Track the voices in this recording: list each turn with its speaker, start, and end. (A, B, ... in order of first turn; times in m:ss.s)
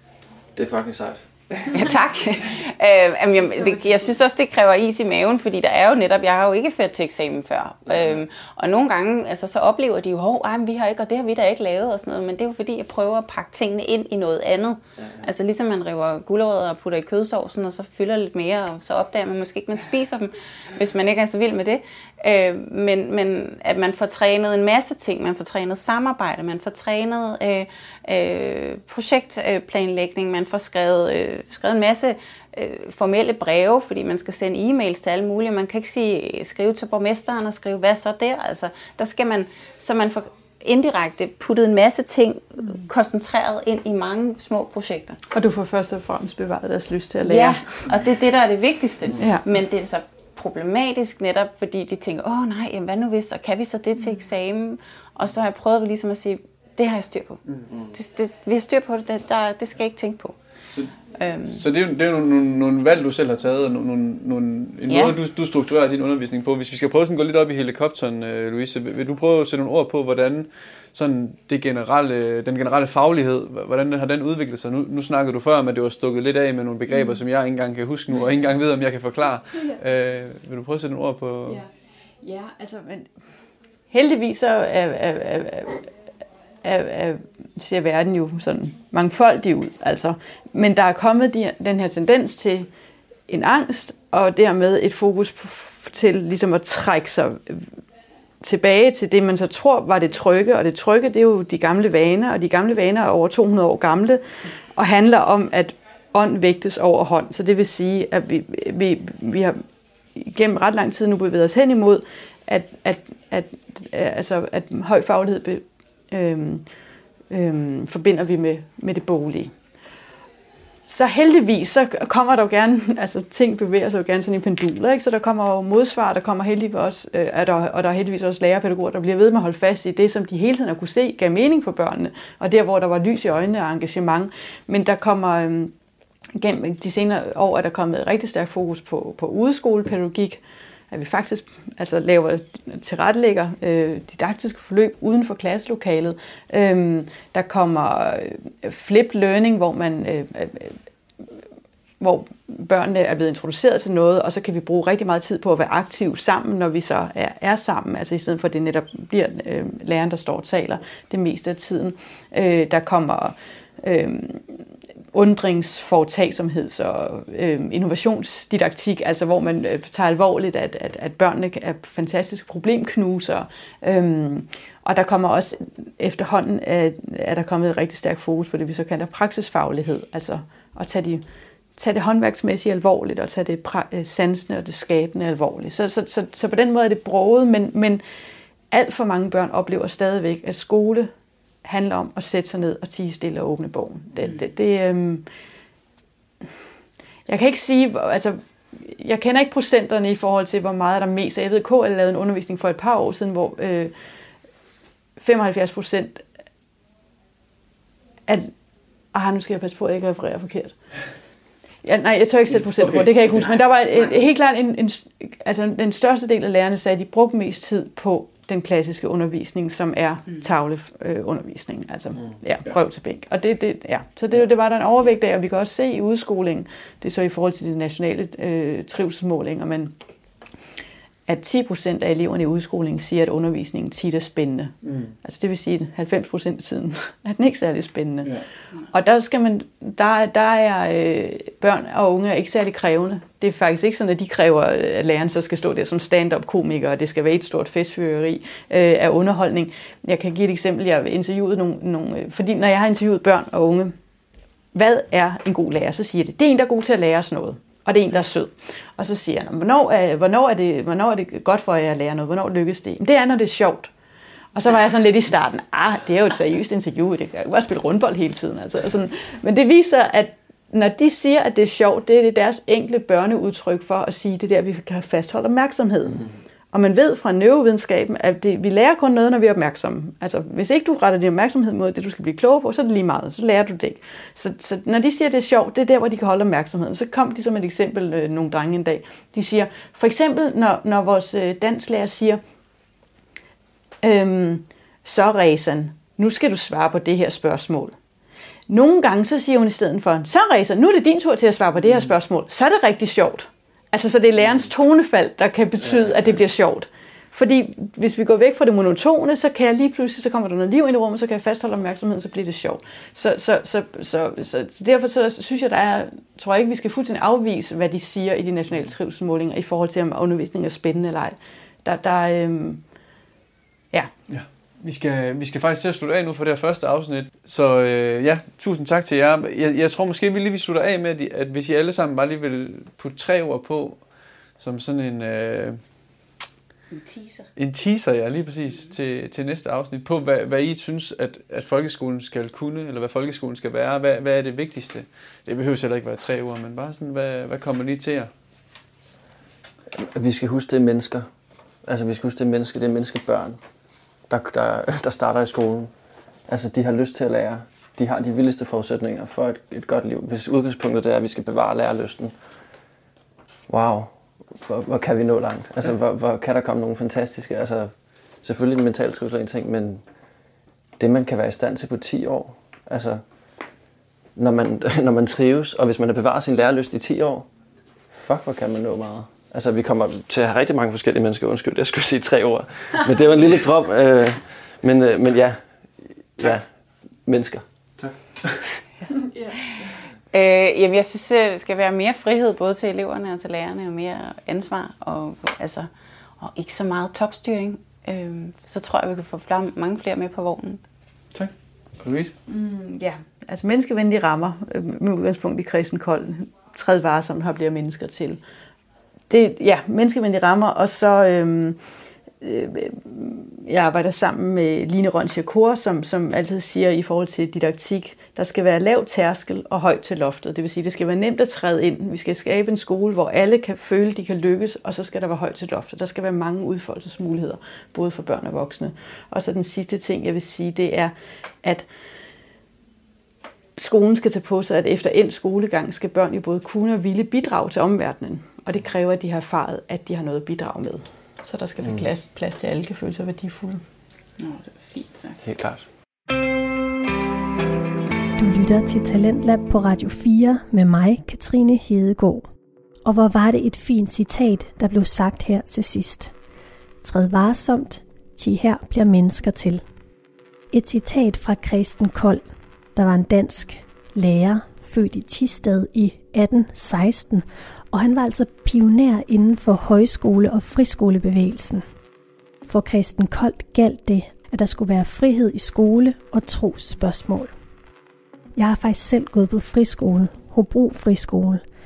0:00.5-0:01.9 A
0:01.7-0:45.2 B
0:07.9-0:08.2 A
0:45.3-0:47.8 C
0:47.2-1:00.3 B
0:49.2-0:49.4 C
1:01.1-1:01.6 B
1:01.5-1:21.6 D
1:04.9-1:05.2 B
1:22.2-1:23.1 C
1:23.9-1:25.9 C
1:26.6-1:32.7 C
1:33.3-1:37.6 C
1:38.4-1:44.2 C
1:44.7-1:49.6 C
1:50.2-1:56.6 C
1:57.3-1:59.5 C
2:00.8-2:15.7 C
2:16.4-2:30.8 C
2:32.0-2:44.6 C
2:45.1-3:01.2 C
3:01.8-3:08.0 C
3:08.7-3:11.1 C
3:11.6-3:15.2 C
3:17.3-3:23.9 C
3:25.2-3:26.2 C
3:28.3-3:28.5 C
3:29.1-3:30.7 C
3:31.8-3:49.9 C
3:51.3-3:58.3 C
3:54.8-3:55.1 D
3:58.9-4:13.9 C
4:14.7-4:23.9 C
4:24.5-4:52.4 C
4:54.0-4:57.9 C
4:58.7-5:22.8 C
5:24.3-5:34.0 D
5:34.6-5:35.8 D
5:36.9-5:37.5 B
5:37.6-5:48.3 D
5:49.9-5:51.3 A
5:51.8-5:53.6 A
5:54.3-5:55.9 A
5:56.5-6:02.3 A
6:03.7-6:07.9 A
6:08.4-6:10.0 A
6:11.0-6:13.2 A
6:14.4-6:17.5 A
6:18.1-6:25.6 A
6:26.4-6:26.6 A
6:27.2-6:27.6 A
6:30.3-6:35.9 B
6:36.4-6:40.8 B
6:41.3-6:42.3 D
6:42.5-6:48.4 C
6:49.3-6:51.8 C
6:52.4-7:11.9 C
7:13.8-7:23.8 C
7:24.4-7:25.4 B
7:25.4-7:25.8 A
7:28.4-7:32.4 E
7:33.0-7:36.3 E
7:37.0-7:39.8 E
7:40.7-7:42.4 E
7:42.9-7:51.8 E
7:52.7-7:57.5 E
7:58.6-8:01.6 E